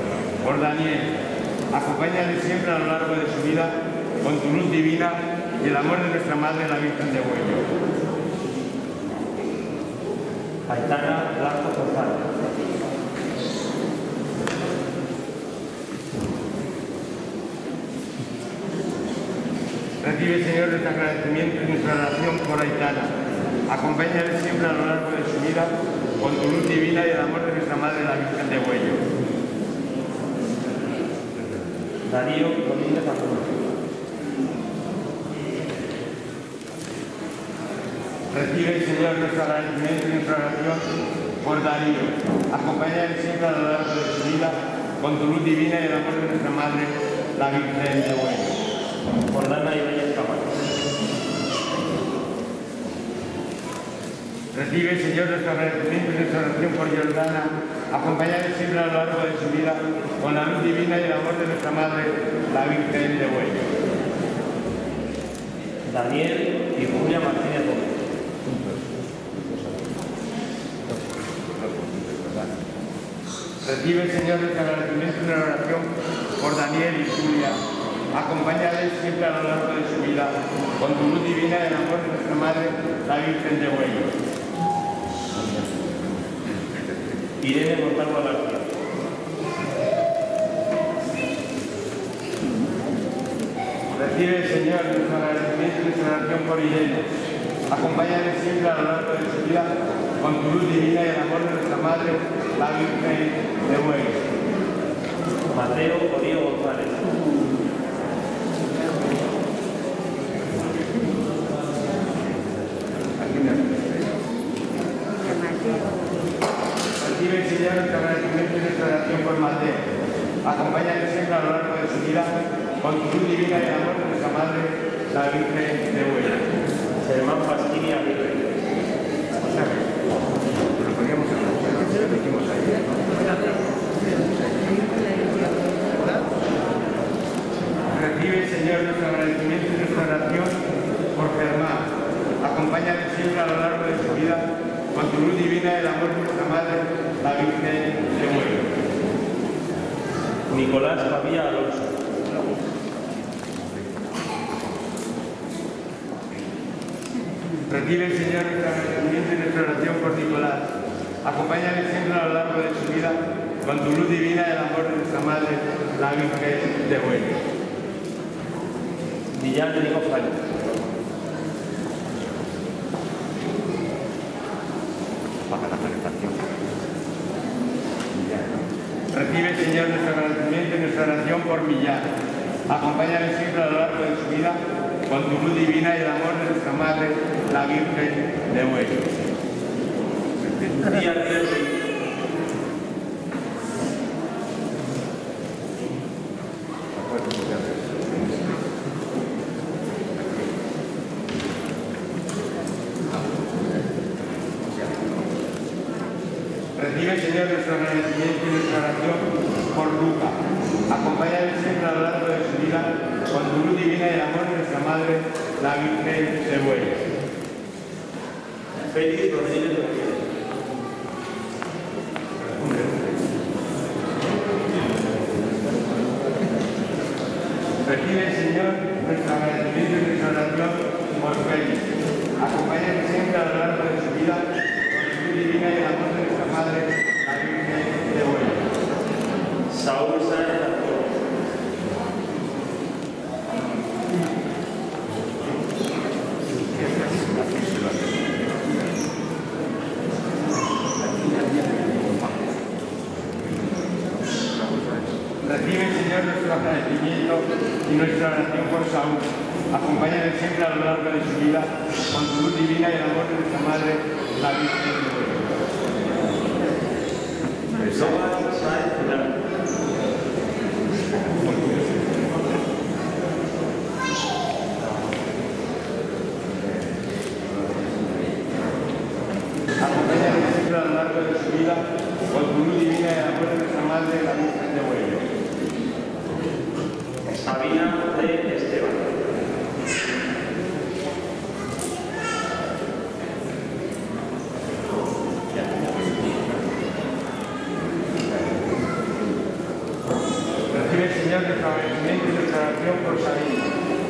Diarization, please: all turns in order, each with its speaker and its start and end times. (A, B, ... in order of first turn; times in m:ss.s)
0:00.4-0:07.7 A
0:10.7-0:12.3 B
0:20.0-0:23.1 A
0:23.7-0:29.0 A
0:32.0-0:33.5 B
0:38.3-0:40.9 A
0:41.4-0:48.6 A
0:49.3-0:50.5 B
0:54.5-1:03.7 A
1:05.9-1:08.0 B
1:13.6-1:17.6 A
1:18.1-1:24.1 A
1:27.4-1:28.7 B
1:33.9-1:37.1 A
1:37.7-1:44.2 A
1:45.5-1:47.2 B
1:53.4-1:53.6 A
1:57.0-1:59.8 A
2:00.4-2:06.5 A
2:07.0-2:08.6 B
2:11.0-2:12.7 A
2:17.9-2:20.6 A
2:21.1-2:28.7 A
2:30.5-2:32.0 B
2:37.7-2:40.7 A
2:41.2-2:47.4 A
2:49.3-2:50.4 B
2:59.1-3:02.1 A
3:02.7-3:09.1 A
3:10.6-3:11.8 B
3:26.8-3:37.0 A
3:38.9-3:40.2 B
3:47.8-3:58.7 A
3:59.7-4:01.2 B
4:15.4-4:25.5 A
4:27.8-4:29.4 B
4:39.8-4:45.3 A
4:47.3-4:49.2 B
5:00.7-5:03.7 A